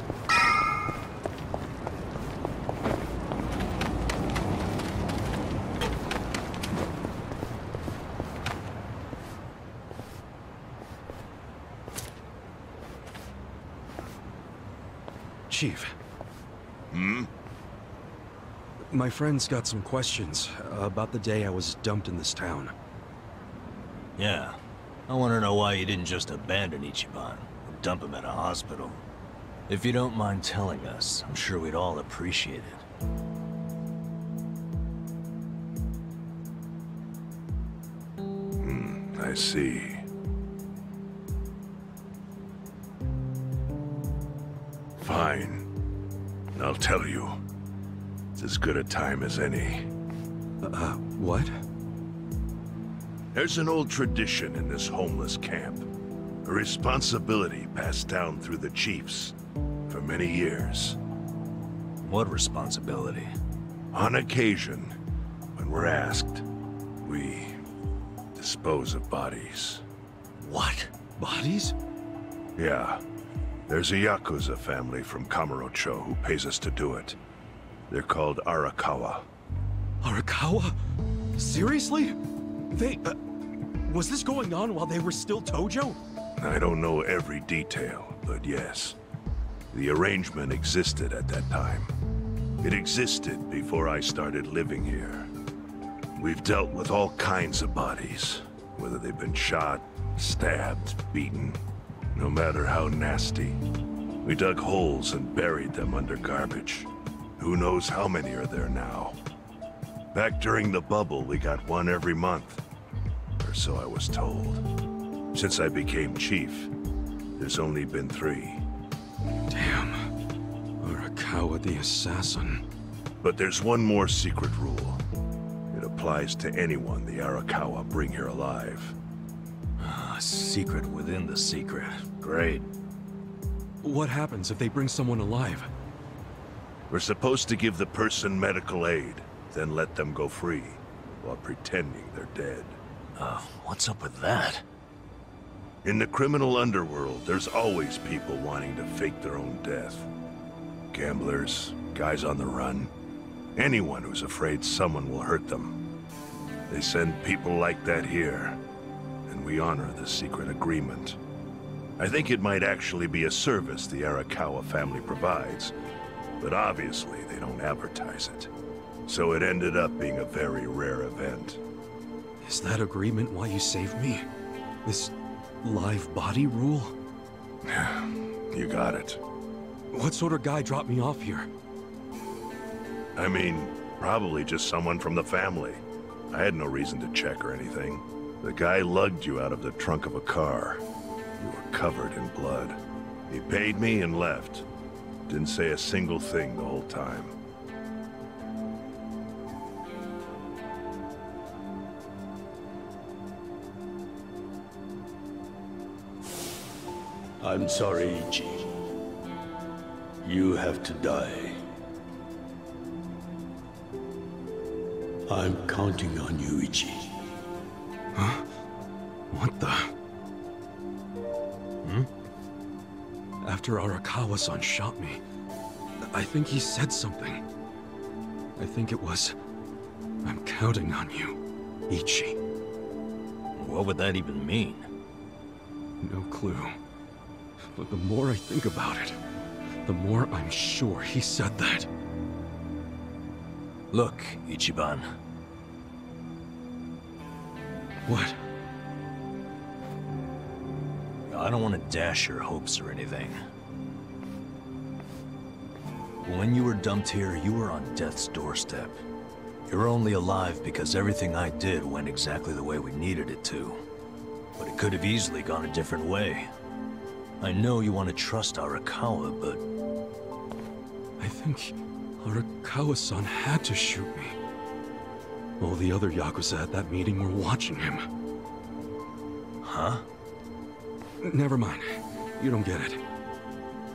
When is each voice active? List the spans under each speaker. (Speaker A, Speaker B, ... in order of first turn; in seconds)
Speaker A: 15.5-15.9, 18.9-22.7, 50.6-51.5, 71.2-71.8, 80.0-80.8, 81.4-82.2, 82.7-83.2, 83.8-86.0, 119.5-120.1, 120.8-122.6, 133.8-135.7, 172.4-174.2, 174.8-176.9, 179.9-181.5, 218.2-218.4, 219.3-219.9, 223.4-225.2, 226.1-227.4, 228.6-229.3, 230.2-232.4, 236.0-236.7, 237.7-239.2, 239.8-241.9, 248.1-248.4, 271.2-274.4, 275.6-278.1, 281.2-283.0
Speaker B: 16.9-17.3, 38.6-40.0, 45.0-45.6, 46.5-47.4, 48.4-49.9, 53.3-55.9, 56.4-59.4, 59.9-61.0, 63.9-64.9, 65.5-66.4, 67.0-67.5, 68.4-69.8, 72.6-73.0, 73.7-77.2, 77.9-79.3, 86.4-89.0, 89.7-91.9, 92.6-95.3, 96.2-101.6, 102.1-103.6, 104.2-109.2, 110.1-112.6, 113.4-114.6, 115.3-116.7, 117.4-118.6, 123.2-125.0, 125.7-128.9, 136.9-142.8, 145.8-150.1, 150.9-152.9, 153.6-155.8, 156.7-158.6, 159.3-161.2, 162.0-165.7, 166.4-168.5, 169.1-171.6, 177.7-179.2, 183.2-190.8, 191.4-192.8, 193.3-194.7, 195.3-197.3
Speaker C: 24.2-29.1, 29.7-32.8, 62.0-63.3, 70.4-70.9, 129.8-132.7, 143.2-144.6, 221.8-222.1, 233.6-234.9, 243.9-245.1, 251.3-253.4, 256.2-259.0, 259.7-263.8, 264.6-266.5, 267.4-269.6, 279.6-280.1
Speaker D: 207.4-208.7, 210.2-211.6, 215.3-217.0